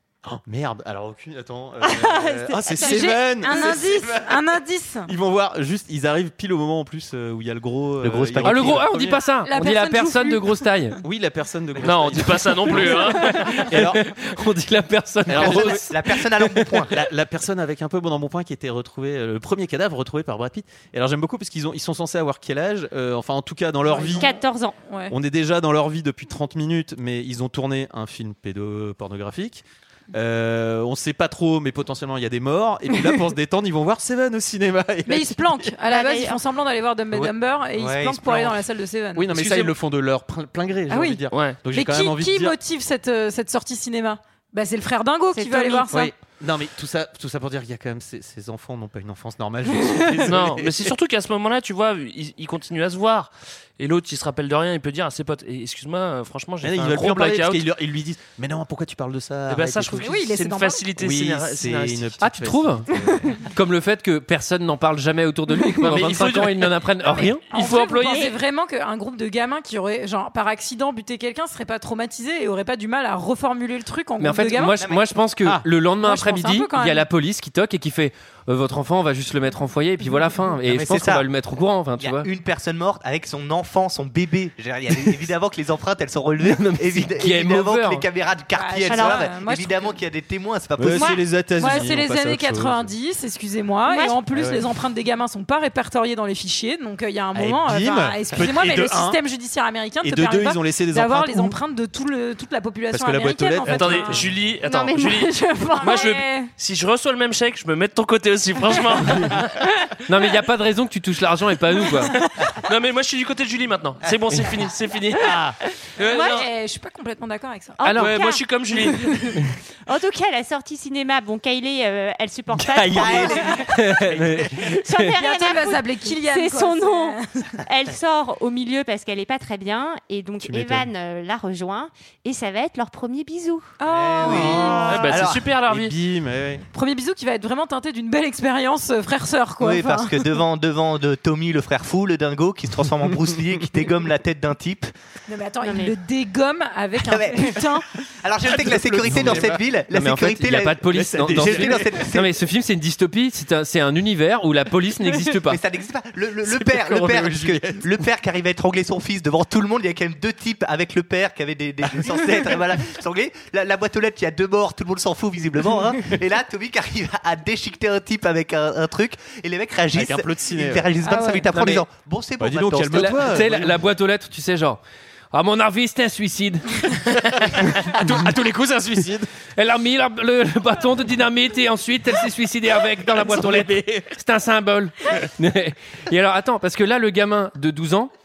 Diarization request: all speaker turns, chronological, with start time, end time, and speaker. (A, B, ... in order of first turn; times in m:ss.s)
0:00.2-0:04.3 A
0:01.8-0:03.7 B
0:02.7-0:05.1 C
0:05.1-0:09.2 A
0:08.0-0:08.8 D
0:08.4-0:11.0 E
0:09.4-0:10.7 C
0:11.0-0:14.0 A
0:11.8-0:13.6 F
0:12.7-0:16.8 E
0:15.3-0:15.8 A
0:15.3-0:17.0 D
0:16.8-0:24.3 A
0:23.8-0:25.1 C
0:24.1-0:24.8 B
0:25.1-0:35.7 A
0:35.0-0:39.5 C
0:35.9-0:36.4 B
0:37.8-0:38.3 D
0:38.2-0:38.6 A
0:39.1-0:42.6 A
0:39.4-0:39.7 F
0:40.9-0:46.1 C
0:41.3-0:41.6 F
0:45.3-0:45.9 B
0:45.9-0:50.9 A
0:49.8-0:50.3 C
0:50.2-0:57.7 F
0:56.6-1:00.1 A
0:59.5-1:02.2 F
0:59.9-1:00.9 C
1:01.0-1:03.4 A
1:02.2-1:02.9 E
1:03.1-1:03.3 C
1:03.4-1:07.4 E
1:05.8-1:06.8 F
1:06.0-1:06.4 A
1:07.0-1:14.9 C
1:07.5-1:08.3 F
1:08.1-1:08.4 B
1:14.2-1:22.3 E
1:14.8-1:15.0 D
1:16.0-1:17.1 C
1:20.6-1:21.2 D
1:22.0-1:31.2 D
1:26.4-1:28.1 E
1:28.5-1:30.0 C
1:28.9-1:29.3 B
1:30.8-1:32.9 A
1:30.9-1:31.2 B
1:31.5-1:44.3 C
1:33.8-1:34.2 B
1:34.3-1:34.6 A
1:37.3-1:39.2 A
1:40.0-1:41.6 A
1:42.9-1:44.4 A
1:43.6-1:49.7 F
1:44.6-1:46.0 B
1:45.1-1:46.5 C
1:50.0-1:52.2 E
1:51.9-1:52.5 C
1:52.2-1:56.5 F
1:56.0-1:56.5 B
1:56.2-1:57.8 C
1:57.8-1:58.4 B
1:57.8-1:58.2 E
1:57.9-1:59.1 F
1:58.7-1:59.4 C
1:59.9-2:03.7 B
2:02.5-2:05.1 E
2:02.9-2:03.6 D
2:04.5-2:15.1 B
2:05.1-2:07.5 C
2:10.4-2:10.9 A
2:13.8-2:14.8 C
2:13.8-2:15.5 D
2:14.3-2:16.6 A
2:14.8-2:16.0 F
2:16.7-2:20.3 C
2:19.6-2:24.9 D
2:25.3-2:27.9 C
2:25.6-2:25.9 B
2:27.0-2:27.7 D
2:28.2-2:32.3 D
2:28.5-2:29.6 A
2:29.0-2:29.3 E
2:29.9-2:35.6 E
2:30.9-2:32.0 A
2:35.4-2:53.3 D
2:36.5-2:37.8 A
2:49.9-2:51.0 A
2:51.0-2:51.5 C
2:51.5-2:51.8 A
2:52.4-2:53.8 A
2:52.9-2:54.8 E
2:55.3-2:58.1 E
2:57.5-2:59.3 A
2:59.5-3:08.1 E
3:03.1-3:04.1 A